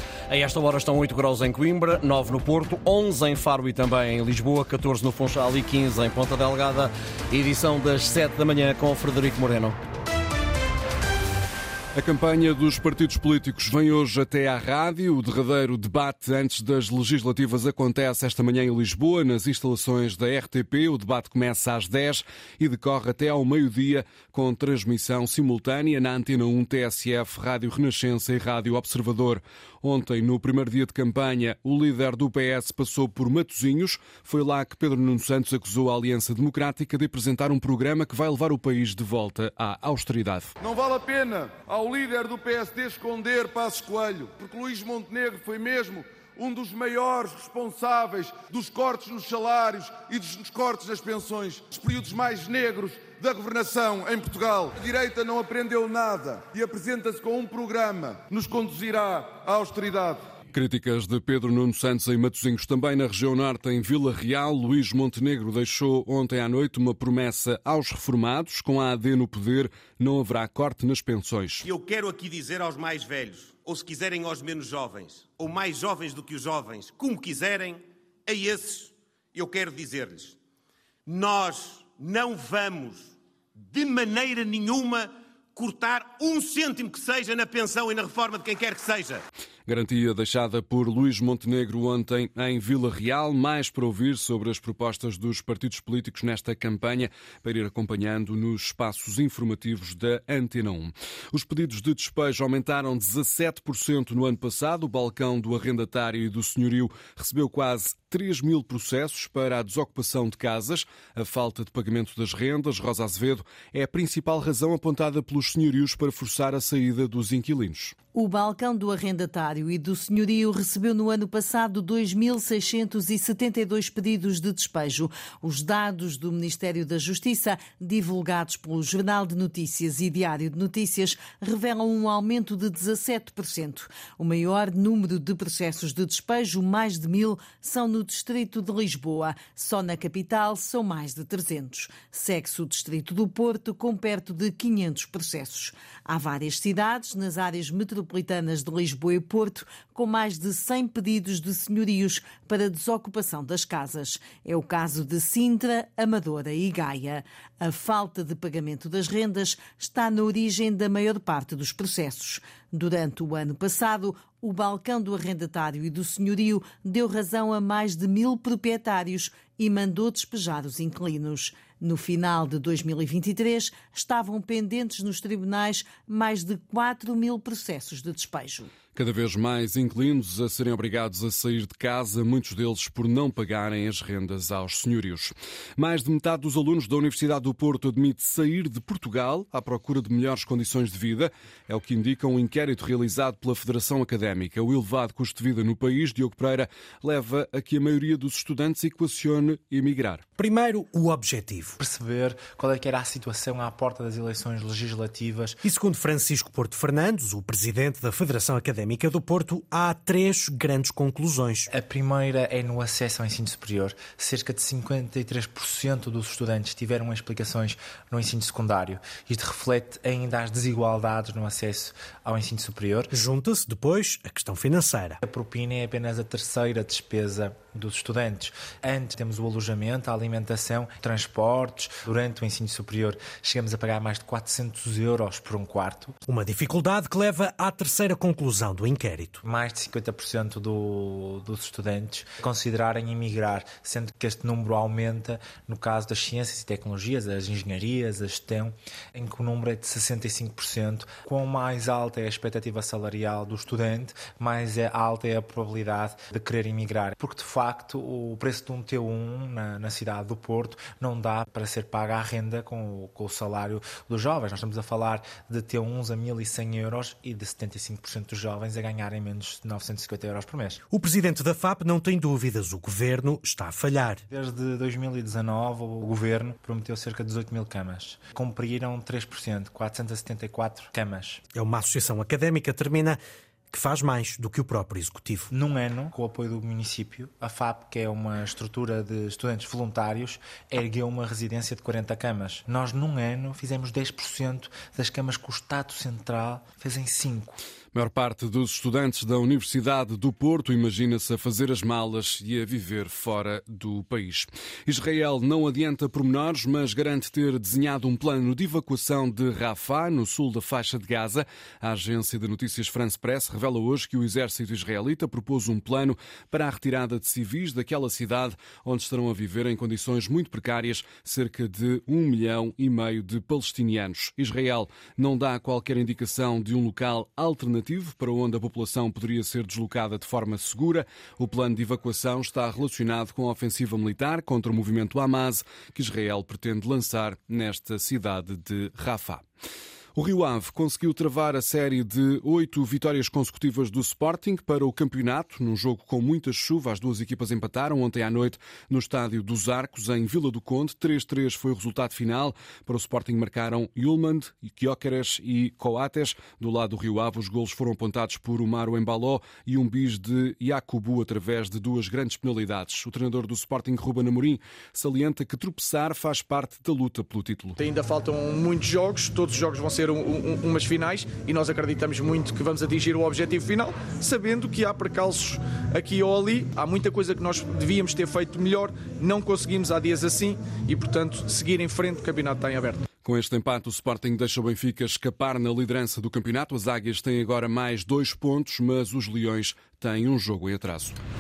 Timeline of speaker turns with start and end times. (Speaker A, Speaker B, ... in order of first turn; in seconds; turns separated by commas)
Speaker A: 0.3-9.8, Speaker B: 11.9-40.5, Speaker C: 40.6-60.2, Speaker B: 60.5-71.7, Speaker D: 71.6-80.4, Speaker D: 81.1-83.1, Speaker D: 83.7-89.2, Speaker B: 89.7-117.9, Speaker E: 118.2-178.7, Speaker B: 178.9-200.2, Speaker F: 200.4-201.8, Speaker G: 201.8-205.6, Speaker F: 205.6-211.7, Speaker G: 211.7-223.1, Speaker F: 223.1-225.2, Speaker G: 225.2-236.2, Speaker F: 236.3-239.4, Speaker G: 239.4-270.8, Speaker F: 270.9-274.2, Speaker G: 274.3-281.4, Speaker F: 281.6-283.2, Speaker F: 283.7-285.5, Speaker G: 285.5-297.6, Speaker B: 297.9-339.4, Speaker B: 340.1-367.8, Speaker H: 367.8-383.1, Speaker B: 383.2-391.2